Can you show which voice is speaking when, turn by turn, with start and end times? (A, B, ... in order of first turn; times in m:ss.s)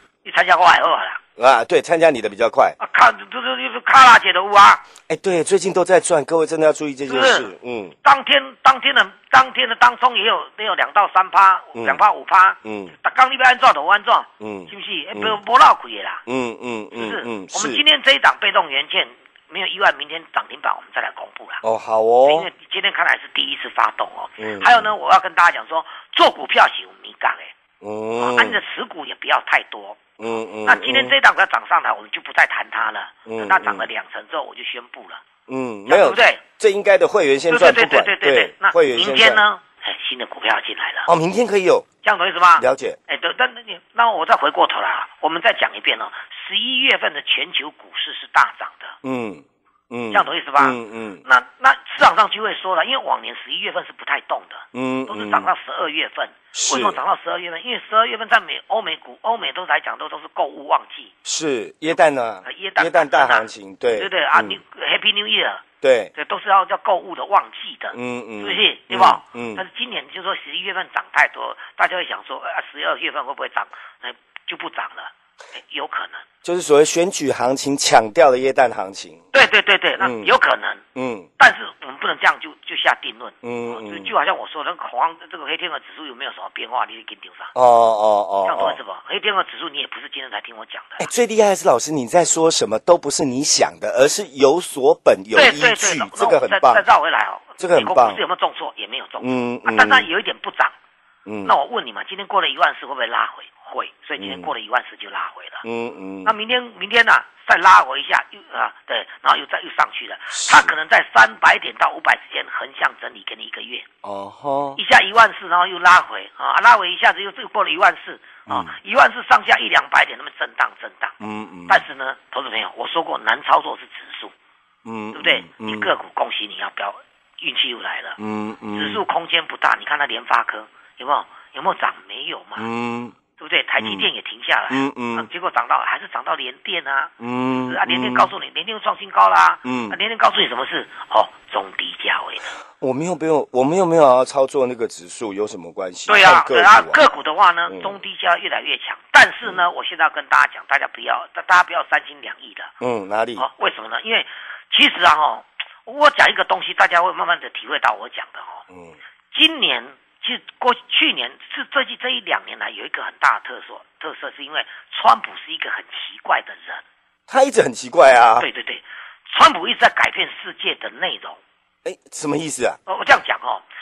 0:00.2-0:01.2 A
0:01.4-0:02.7 B
0:02.8-0:04.8 A
0:05.1-0:07.9 B
0:07.0-0:07.5 A
0:08.0-0:16.2 A
0:11.7-0:12.0 B
0:12.6-0:12.9 B
0:14.4-0:15.4 B
0:16.3-0:17.8 B
0:16.9-0:21.6 A
0:21.6-0:22.5 B
0:22.2-0:27.5 A
0:24.4-0:24.9 B
0:27.8-0:28.6 B
0:28.2-0:30.0 A
0:30.2-0:31.2 B
0:30.6-0:35.2 A
0:33.2-0:33.8 B
0:35.5-0:39.4 B
0:35.8-0:36.4 A
0:37.5-0:41.1 A
0:41.0-0:41.8 B
0:42.0-0:49.0 A
0:42.6-0:43.0 B
0:49.0-0:51.2 B
0:50.1-1:01.1 A
0:54.7-0:55.5 B
0:56.5-0:57.0 B
1:01.2-1:04.6 B
1:01.9-1:05.6 A
1:05.8-1:06.1 B
1:06.1-1:16.2 A
1:07.9-1:09.6 B
1:16.4-1:19.2 B
1:19.3-1:20.8 A
1:20.0-1:20.3 B
1:21.0-1:21.3 B
1:21.4-1:27.5 A
1:23.4-1:24.1 B
1:27.5-1:28.8 B
1:28.4-1:31.1 A
1:31.0-1:36.8 B
1:35.3-1:40.7 A
1:37.6-1:38.2 B
1:39.2-1:40.1 B
1:41.2-1:41.6 B
1:41.4-1:45.6 A
1:44.2-1:44.5 B
1:45.6-1:46.3 B
1:46.2-1:53.9 A
1:50.3-1:50.7 B
1:54.0-1:54.8 B
1:54.8-2:01.1 A
1:58.5-1:58.7 B
2:01.2-2:01.8 B
2:01.7-2:04.3 A
2:04.8-2:05.9 B
2:05.1-2:08.2 A
2:08.2-2:09.0 B
2:08.7-2:12.7 A
2:12.6-2:13.1 B
2:13.4-2:22.4 A
2:13.8-2:14.1 B
2:14.7-2:15.3 B
2:17.2-2:18.3 B
2:19.6-2:20.0 B
2:22.8-2:27.0 B
2:26.1-2:32.7 A
2:27.7-2:28.0 B
2:32.8-2:33.5 B
2:33.3-2:38.6 A
2:39.3-2:46.8 A
2:47.3-2:48.5 B
2:48.4-2:51.4 A
2:51.8-2:52.8 B
2:52.8-2:53.6 A